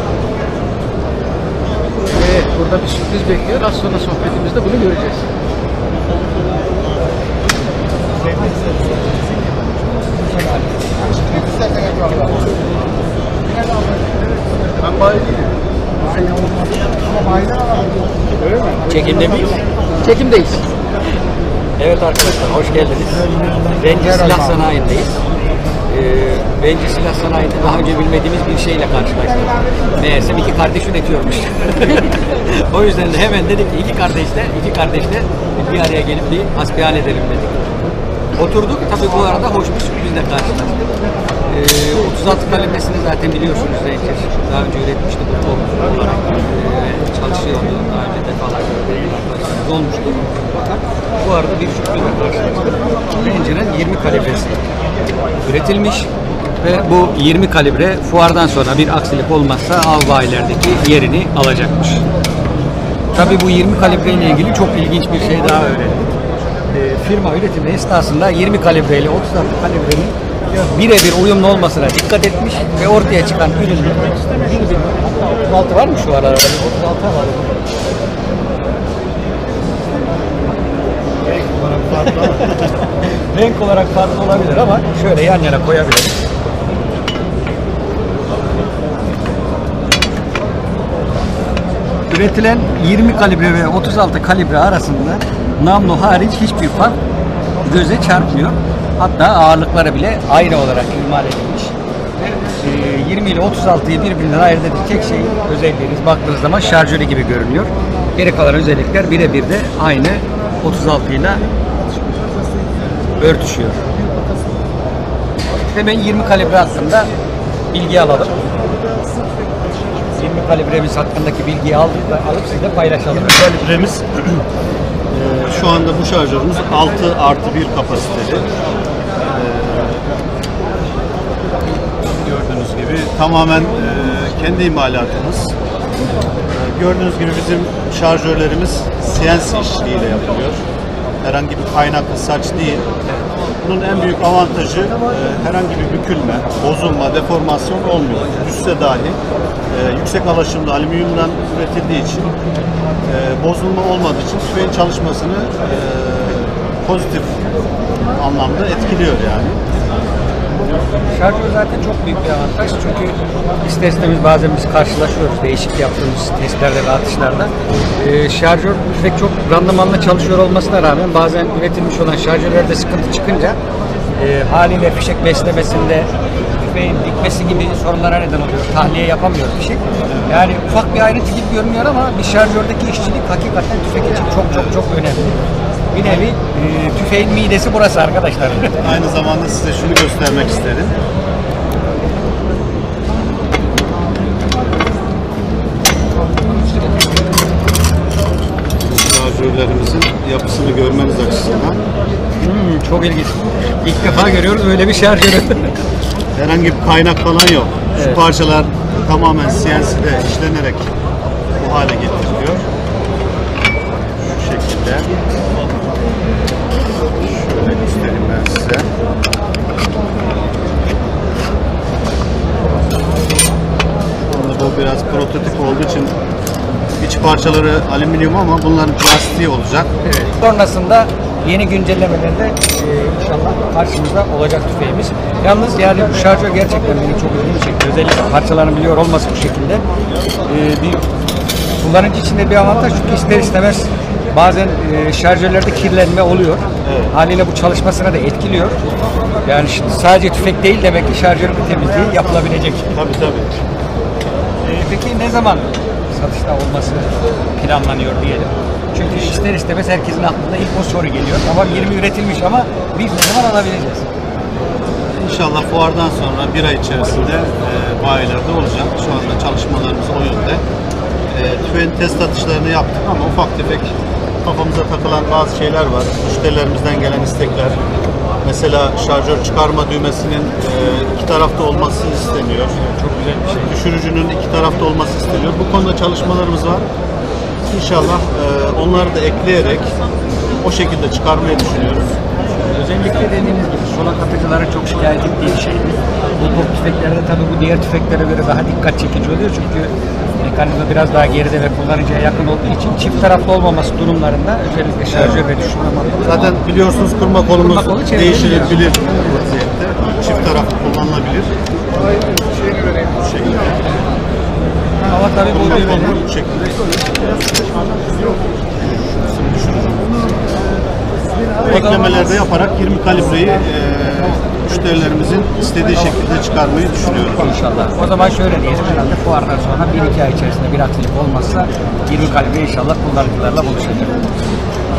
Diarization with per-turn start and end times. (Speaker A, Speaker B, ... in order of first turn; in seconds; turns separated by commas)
Speaker A: 2.1-5.3, Speaker B: 18.9-19.6, Speaker A: 20.0-20.6, Speaker B: 20.1-20.4, Speaker B: 21.8-25.1, Speaker B: 25.9-37.7, Speaker B: 38.4-40.8, Speaker B: 41.5-54.6, Speaker B: 55.5-56.1, Speaker B: 56.6-62.0, Speaker B: 63.1-66.1, Speaker B: 66.7-77.6, Speaker C: 81.3-82.5, Speaker B: 81.9-86.2, Speaker B: 92.1-97.0, Speaker B: 97.6-101.7, Speaker B: 102.5-111.4, Speaker B: 113.2-113.8, Speaker B: 115.7-117.1, Speaker B: 117.7-118.4, Speaker B: 120.2-123.5, Speaker C: 123.1-124.4, Speaker C: 125.1-128.5, Speaker C: 129.3-130.0, Speaker C: 132.1-135.6, Speaker C: 136.5-140.6, Speaker C: 141.2-142.9, Speaker C: 143.6-149.2, Speaker C: 149.7-152.3, Speaker C: 153.1-157.4, Speaker C: 158.2-159.6, Speaker B: 161.1-173.6, Speaker B: 174.1-188.9, Speaker C: 180.1-180.5, Speaker C: 188.8-190.9, Speaker C: 198.8-201.8, Speaker B: 202.4-205.8, Speaker C: 204.0-204.5, Speaker C: 206.3-210.9, Speaker B: 207.9-208.2, Speaker C: 211.6-212.7, Speaker C: 214.2-215.1, Speaker C: 217.2-218.9, Speaker C: 224.3-226.1, Speaker C: 227.0-229.9, Speaker B: 230.0-239.8, Speaker B: 240.5-241.0, Speaker B: 241.8-248.8, Speaker C: 246.8-247.1, Speaker B: 249.4-253.0, Speaker C: 252.9-253.6, Speaker B: 254.6-264.1, Speaker C: 261.6-261.9, Speaker C: 265.1-270.6, Speaker C: 271.3-277.8, Speaker C: 278.4-282.8, Speaker B: 282.8-283.7, Speaker C: 283.6-286.9, Speaker C: 287.7-289.9, Speaker C: 290.6-292.2, Speaker B: 292.6-306.6, Speaker C: 305.1-305.5, Speaker C: 306.2-311.5, Speaker B: 307.6-308.9, Speaker C: 313.2-313.8, Speaker B: 315.0-316.2, Speaker C: 315.5-317.4, Speaker C: 318.8-320.4, Speaker C: 321.6-327.6, Speaker B: 321.7-322.1, Speaker B: 327.4-334.2